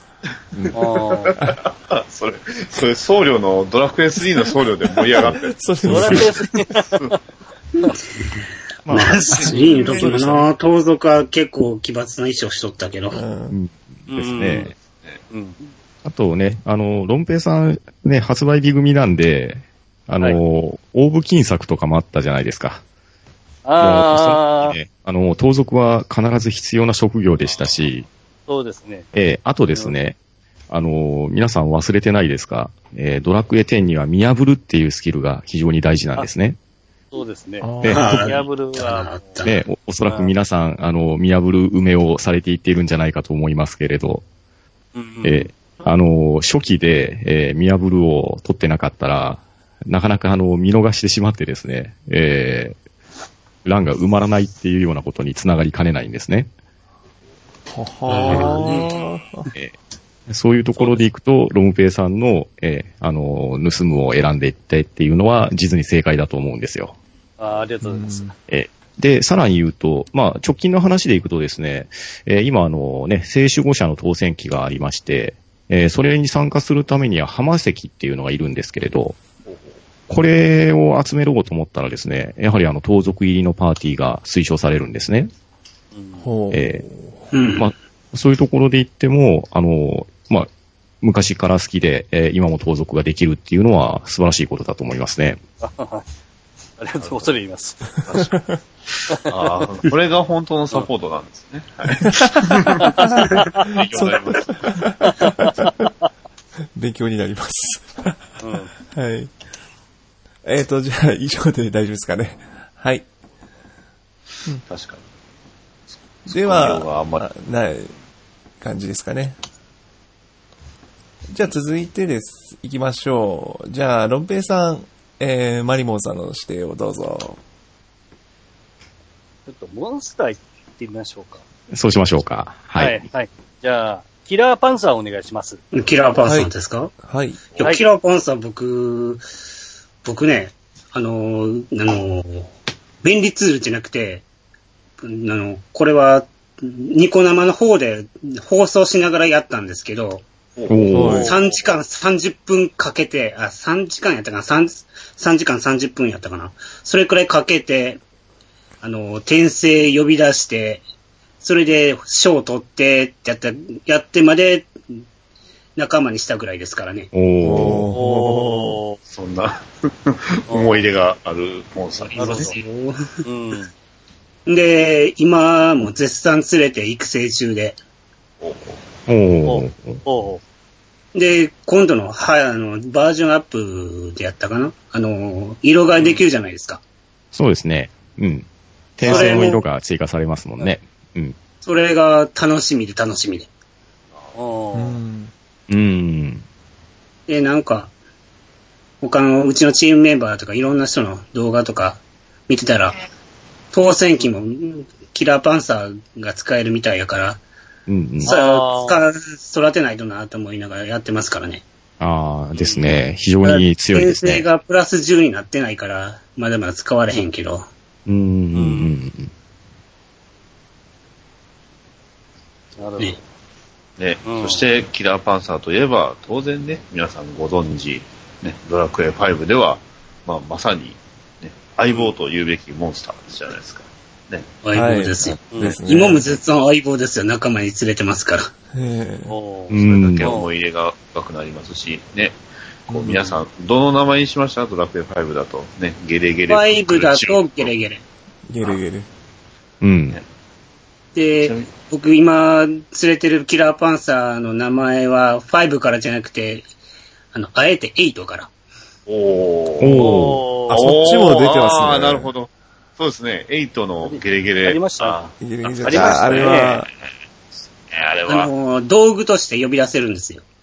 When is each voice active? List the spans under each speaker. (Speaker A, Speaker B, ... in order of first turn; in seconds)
Speaker A: 0.5-0.8, 5.1-6.3, 9.4-10.4, 13.1-13.5, 37.6-38.2, 57.7-59.5, 67.8-68.3, 86.2-87.1, 98.1-98.5, 102.0-102.3, 103.9-105.9, 106.7-109.3, 110.4-113.0, 116.3-117.9, 118.6-119.4, 121.3-127.4, 136.2-136.5, 137.0-137.4, 150.9-151.3, 167.4-168.8, 194.7-195.3, 234.7-236.4, 238.7-239.3, 242.9-243.4, 248.5-249.1, 260.7-262.3, 265.4-266.9
Speaker B: 0.7-1.3, 5.8-7.1, 14.1-14.7, 15.3-15.6, 23.6-24.8, 28.5-29.1, 37.1-39.4, 40.0-40.3, 44.9-45.5, 60.8-61.0, 67.4-68.3, 85.9-86.2, 95.6-96.0, 96.8-97.9, 102.8-103.7, 105.1-105.7, 108.4-108.7, 129.5-131.4, 132.8-135.6, 150.9-151.6, 167.9-169.0, 170.5-170.8, 172.2-172.6, 173.2-173.7, 179.4-180.4, 189.0-189.6, 194.3-195.0, 208.2-209.0, 212.5-212.9, 218.5-218.9, 222.8-223.2, 224.2-224.6, 235.5-235.8, 239.2-240.5, 259.9-260.8, 264.0-265.2, 265.8-266.8
Speaker C: 1.1-6.3, 9.2-10.1, 14.8-15.2, 79.5-79.8, 97.0-97.3, 98.0-98.3, 99.1-104.7, 114.6-115.1, 115.9-117.2, 150.6-151.3, 169.1-172.5, 178.4-178.8, 224.0-234.5, 239.7-247.7, 251.3-251.7, 259.1-260.1, 260.7-266.9, 267.8-268.5
Speaker D: 8.8-10.4, 13.5-14.7, 16.0-22.8, 23.8-28.1, 29.1-30.1, 30.7-36.6, 37.8-38.3, 39.4-44.2, 45.2-52.8, 53.6-56.5, 60.3-67.0, 68.5-79.2, 80.1-85.3, 86.5-86.9, 87.5-90.5, 91.0-95.4, 131.7-133.0, 150.7-151.3, 167.1-167.9, 179.1-180.0, 187.3-188.4, 189.0-191.3, 195.7-196.4, 207.9-208.3, 212.0-214.5, 218.1-219.3, 239.7-240.3, 249.8-250.2, 259.8-260.4
Speaker E: 8.9-13.2, 37.9-39.6, 58.2-58.9, 87.3-87.7, 135.7-136.9, 137.5-139.2, 140.0-142.5, 143.0-144.2, 145.0-150.2, 151.2-158.0, 158.8-160.8, 161.4-164.7, 165.8-167.1, 172.0-173.1, 174.5-177.8, 181.1-186.8, 189.0-189.6, 191.6-193.5, 197.3-197.9, 199.0-203.0, 203.7-207.4, 208.2-211.6, 213.4-217.7, 234.6-238.5, 246.5-248.0, 251.1-256.6, 257.3-258.5, 268.3-270.4